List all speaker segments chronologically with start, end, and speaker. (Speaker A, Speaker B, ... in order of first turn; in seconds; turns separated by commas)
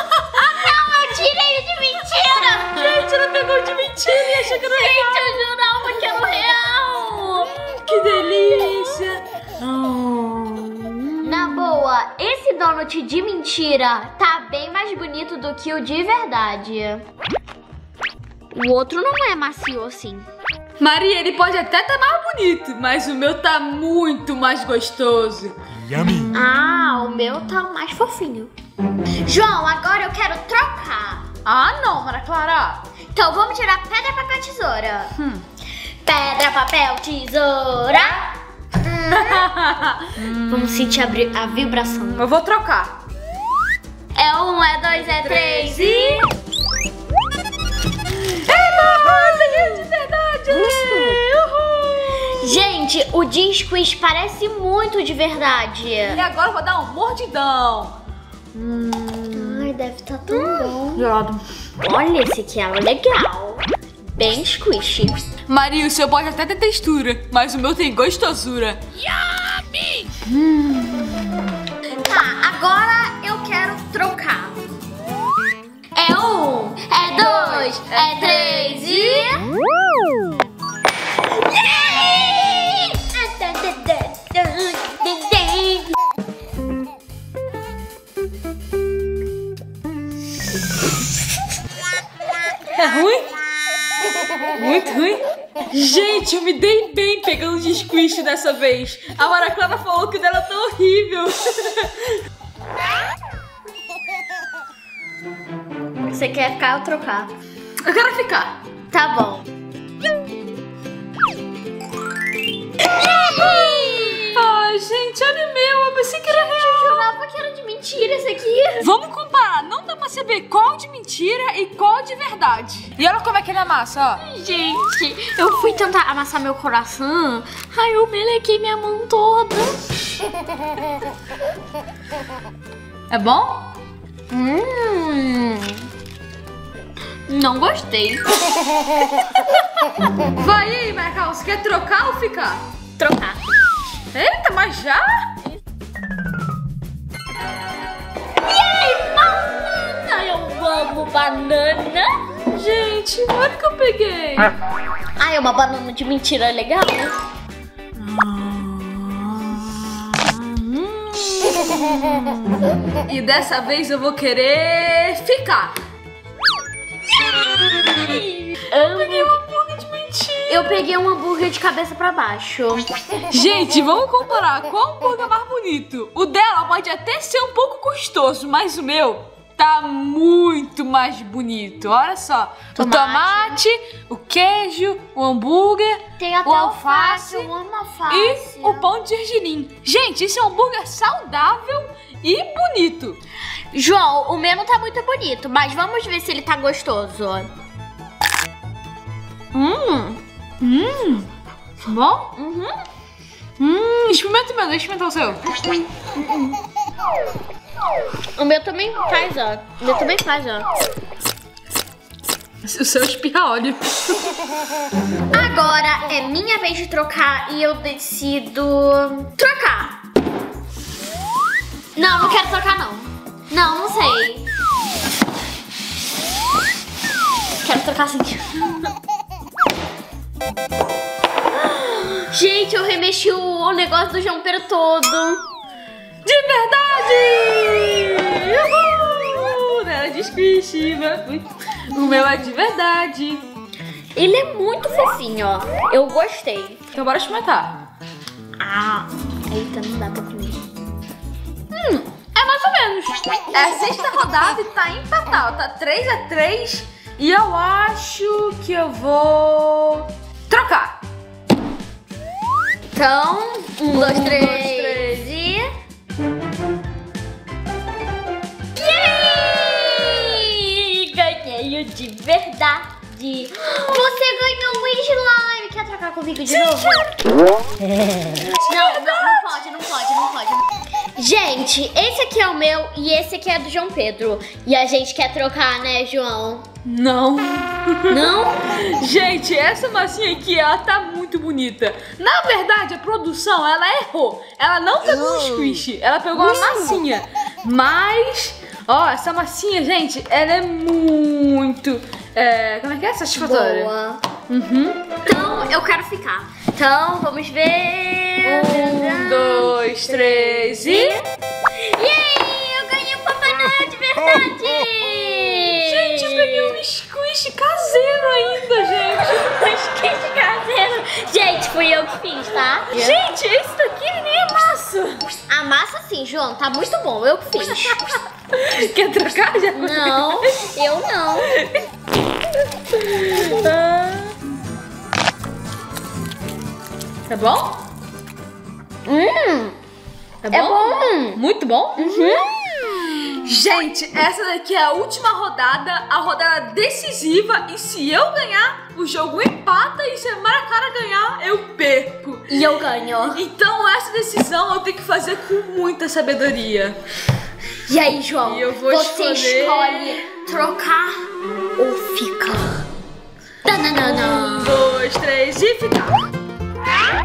Speaker A: 0.1-0.8, Speaker B: 0.3-2.9, Speaker A: 2.4-5.3, Speaker B: 4.5-7.6, Speaker A: 7.8-11.6, Speaker B: 11.2-17.0, Speaker B: 18.5-20.3, Speaker A: 20.8-25.6, Speaker B: 26.3-28.5, Speaker B: 29.2-31.3, Speaker A: 31.4-32.8, Speaker B: 33.1-35.1, Speaker B: 36.0-38.4, Speaker A: 39.1-40.8, Speaker B: 40.4-42.2, Speaker A: 42.2-43.0, Speaker B: 44.1-46.3, Speaker A: 45.1-46.3, Speaker A: 48.3-52.4, Speaker B: 52.3-56.2, Speaker A: 56.1-58.0, Speaker A: 58.5-59.7, Speaker B: 59.3-61.0, Speaker A: 60.3-61.4, Speaker B: 61.8-65.2, Speaker A: 65.5-68.8, Speaker A: 70.2-71.4, Speaker B: 72.0-74.6, Speaker B: 76.0-79.5, Speaker A: 77.1-79.4, Speaker B: 81.3-85.9, Speaker A: 92.8-93.3, Speaker A: 94.5-102.2, Speaker B: 106.0-107.3, Speaker A: 107.8-108.6, Speaker B: 108.9-109.5, Speaker B: 112.9-114.4, Speaker A: 113.8-117.1, Speaker B: 116.3-118.9, Speaker A: 118.8-124.2, Speaker B: 124.2-129.8, Speaker A: 133.1-133.7, Speaker B: 134.3-135.8, Speaker B: 137.3-138.3, Speaker A: 140.4-142.6, Speaker B: 143.0-143.4, Speaker A: 144.1-145.3, Speaker B: 148.4-152.3, Speaker A: 152.5-154.5, Speaker B: 155.2-157.2, Speaker A: 158.0-162.2, Speaker A: 163.1-165.8, Speaker A: 167.7-170.9, Speaker B: 167.8-169.4, Speaker B: 170.5-172.9, Speaker A: 173.3-187.5, Speaker B: 182.8-183.6, Speaker B: 186.2-188.9, Speaker A: 188.1-193.2, Speaker B: 193.7-197.5, Speaker B: 199.5-200.2, Speaker A: 200.6-201.3, Speaker B: 201.9-202.7, Speaker A: 203.6-205.5, Speaker B: 208.4-210.7, Speaker A: 212.6-214.3, Speaker B: 215.3-220.0, Speaker B: 222.0-224.5, Speaker B: 227.6-228.6, Speaker A: 231.8-232.2, Speaker B: 232.3-235.4, Speaker A: 236.2-243.5, Speaker B: 244.2-246.8, Speaker A: 246.9-247.8, Speaker B: 248.6-250.6, Speaker A: 251.7-261.0, Speaker B: 262.9-265.7, Speaker A: 263.9-265.3, Speaker B: 268.8-277.1, Speaker B: 278.6-286.7, Speaker A: 278.8-279.3, Speaker A: 286.9-303.9, Speaker B: 288.1-288.8, Speaker B: 296.4-297.0, Speaker B: 303.4-304.2, Speaker A: 304.5-305.1, Speaker B: 305.2-316.8, Speaker A: 308.4-311.2, Speaker A: 315.7-319.6, Speaker B: 319.1-323.2, Speaker A: 322.9-325.4, Speaker B: 325.5-328.1, Speaker A: 327.6-330.5, Speaker B: 329.7-331.5, Speaker A: 331.6-331.8, Speaker A: 332.9-333.7, Speaker B: 333.3-334.3, Speaker A: 337.3-337.8, Speaker B: 339.1-339.8, Speaker A: 340.4-342.4, Speaker B: 340.5-341.4, Speaker B: 342.0-342.5, Speaker A: 343.4-352.6, Speaker B: 352.5-353.4, Speaker A: 353.3-357.0, Speaker B: 357.9-362.9, Speaker A: 358.4-360.2, Speaker B: 363.6-364.8, Speaker A: 364.0-366.3